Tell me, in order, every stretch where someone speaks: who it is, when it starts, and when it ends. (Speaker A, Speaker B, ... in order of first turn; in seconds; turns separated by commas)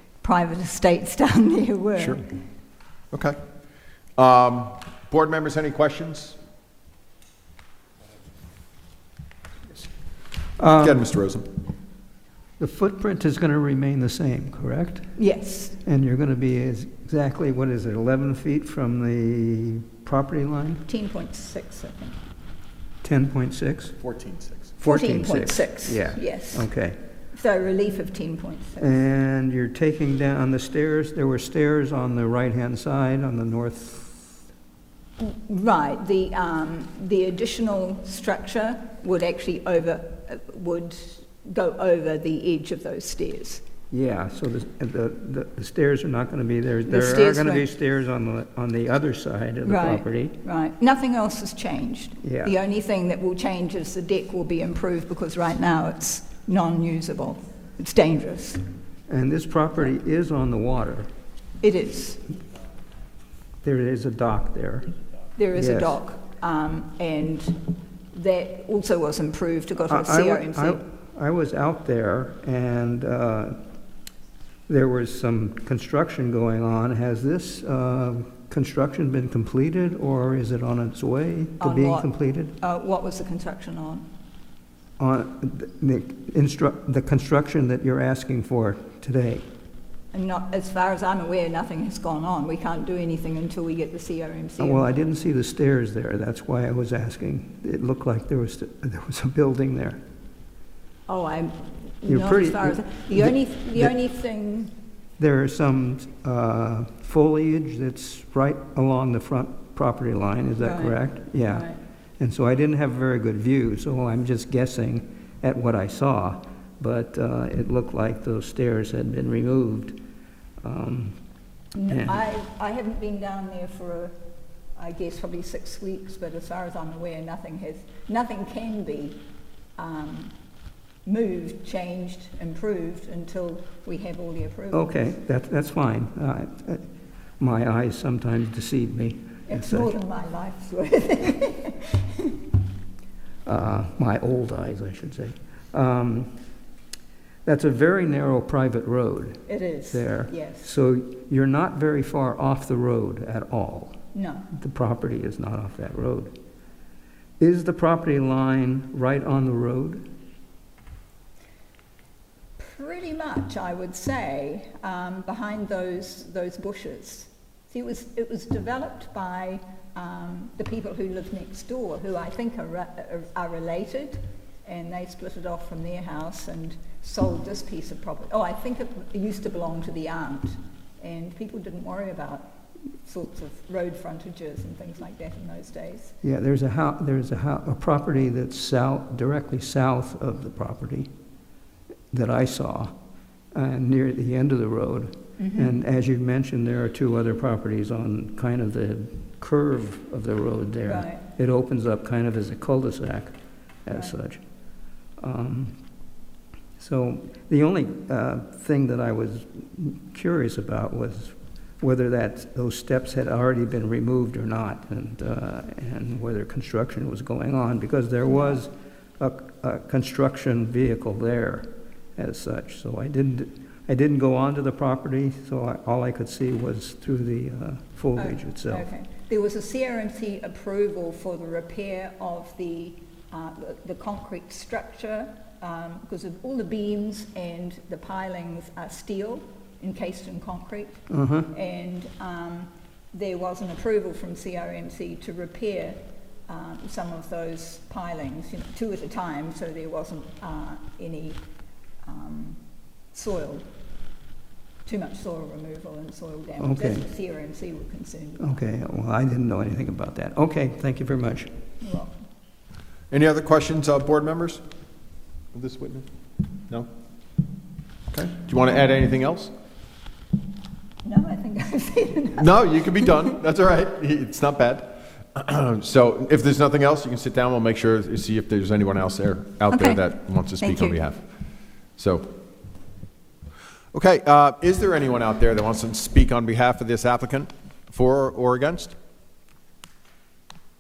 Speaker A: 0.2-2.3, Speaker B: 2.0-2.2, Speaker B: 3.1-3.4, Speaker B: 4.2-6.4, Speaker C: 10.6-11.1, Speaker B: 10.7-11.5, Speaker C: 12.6-15.1, Speaker A: 15.2-15.8, Speaker C: 15.8-20.9, Speaker A: 20.9-22.2, Speaker C: 23.0-24.0, Speaker B: 24.0-24.7, Speaker C: 24.8-27.0, Speaker A: 24.9-26.7, Speaker A: 27.3-28.9, Speaker C: 28.8-34.4, Speaker A: 35.2-43.6, Speaker C: 43.9-50.4, Speaker A: 46.9-47.7, Speaker A: 49.6-58.6, Speaker C: 52.2-52.5, Speaker C: 59.1-61.1, Speaker A: 61.6-62.2, Speaker C: 63.6-64.9, Speaker A: 65.4-70.8, Speaker C: 65.5-66.0, Speaker C: 69.9-73.6, Speaker C: 74.7-82.5, Speaker A: 81.6-84.1, Speaker C: 85.0-89.5, Speaker A: 90.1-94.9, Speaker C: 94.6-100.0, Speaker A: 101.1-104.7, Speaker C: 102.1-104.0, Speaker C: 105.2-120.0, Speaker A: 110.6-111.8, Speaker C: 120.6-121.2, Speaker A: 121.8-124.2, Speaker C: 121.9-122.2, Speaker A: 124.8-129.2, Speaker A: 129.8-130.3, Speaker A: 131.1-135.0, Speaker C: 134.7-136.9, Speaker C: 137.4-139.9, Speaker A: 139.5-142.4, Speaker C: 143.5-146.3, Speaker C: 147.4-154.0, Speaker A: 149.5-150.7, Speaker A: 154.1-154.5, Speaker C: 154.5-156.3, Speaker C: 157.4-160.1, Speaker A: 162.6-186.2, Speaker C: 186.2-191.1, Speaker C: 192.1-192.9, Speaker C: 193.5-204.4, Speaker A: 195.4-195.8, Speaker A: 200.8-201.2, Speaker C: 205.2-205.8, Speaker C: 206.8-228.8, Speaker A: 218.3-218.6, Speaker A: 228.2-251.4, Speaker C: 241.1-241.5, Speaker A: 252.0-252.6, Speaker A: 253.1-253.7, Speaker A: 254.8-258.6, Speaker C: 256.6-257.1, Speaker C: 258.4-261.5, Speaker A: 261.8-262.1, Speaker B: 263.1-264.6, Speaker B: 265.5-266.1, Speaker B: 268.1-269.5, Speaker A: 271.0-272.5, Speaker B: 272.4-281.2, Speaker A: 279.7-281.0, Speaker B: 282.0-282.3, Speaker B: 283.9-288.9